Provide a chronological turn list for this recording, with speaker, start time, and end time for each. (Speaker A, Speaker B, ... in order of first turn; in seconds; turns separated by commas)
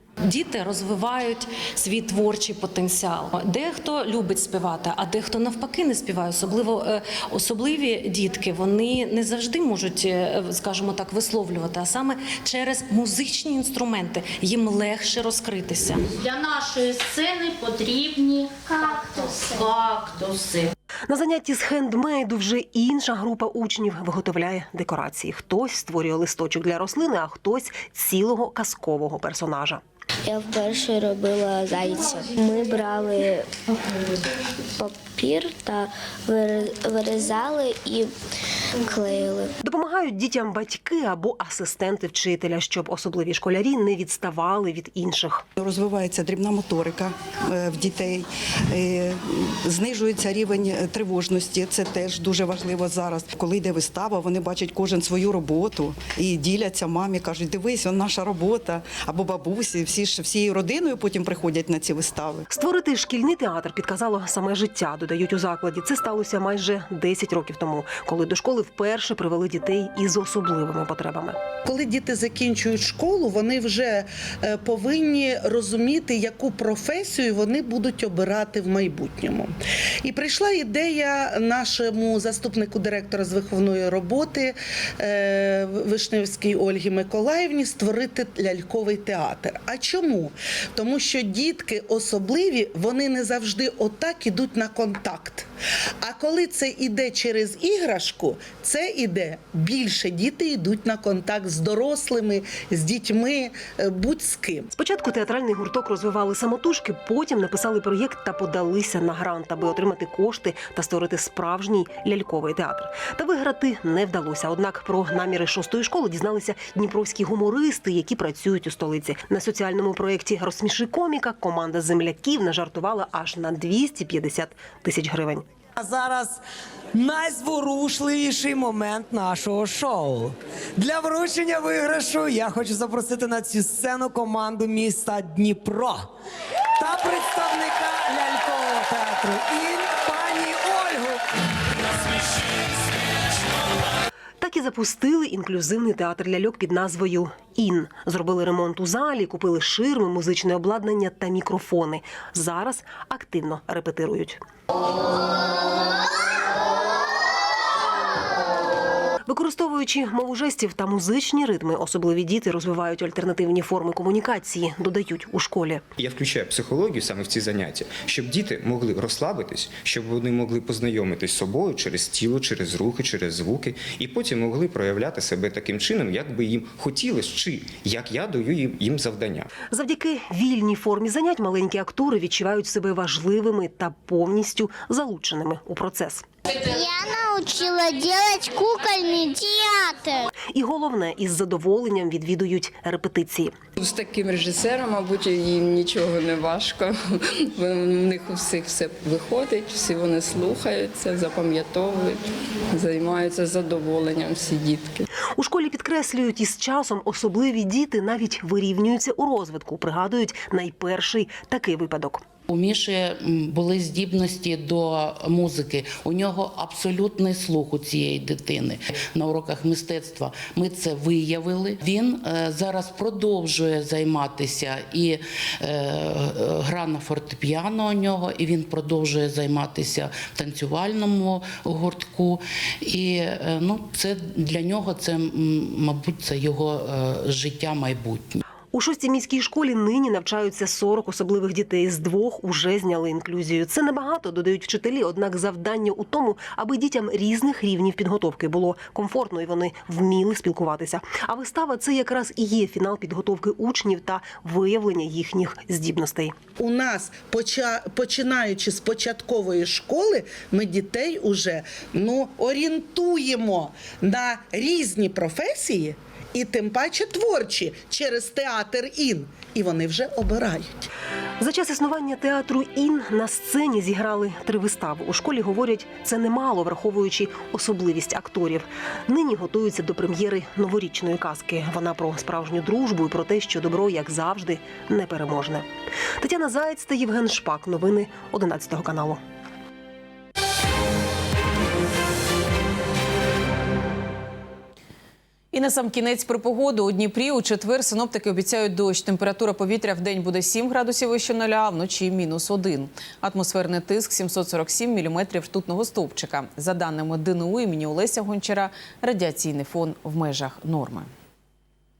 Speaker A: 0.3-6.8, Speaker B: 2.5-3.0, Speaker B: 4.1-5.7, Speaker A: 7.4-15.6, Speaker B: 11.9-14.3, Speaker B: 14.9-15.4, Speaker C: 21.1-29.8, Speaker D: 30.2-33.5, Speaker D: 34.8-38.1, Speaker D: 38.8-39.5, Speaker C: 39.6-45.5, Speaker E: 45.6-48.2, Speaker E: 48.8-49.1, Speaker E: 49.7-62.4, Speaker C: 62.5-71.5, Speaker F: 71.6-79.5, Speaker F: 80.0-95.5, Speaker F: 96.0-104.7, Speaker C: 104.7-125.5, Speaker B: 125.8-126.4, Speaker B: 126.9-136.1, Speaker B: 136.8-141.2, Speaker C: 144.4-154.4, Speaker C: 159.2-165.9, Speaker G: 165.9-179.5, Speaker C: 179.7-186.3, Speaker D: 186.7-190.3, Speaker C: 190.5-193.6, Speaker H: 193.8-205.0, Speaker C: 205.3-212.2, Speaker I: 212.5-238.3, Speaker E: 214.0-214.6, Speaker E: 217.2-217.5, Speaker E: 219.1-222.3, Speaker E: 223.0-223.3, Speaker E: 223.9-225.0, Speaker E: 227.8-231.7, Speaker E: 235.1-235.9, Speaker C: 238.7-256.4, Speaker F: 256.6-270.7, Speaker C: 271.4-289.2, Speaker J: 295.5-311.1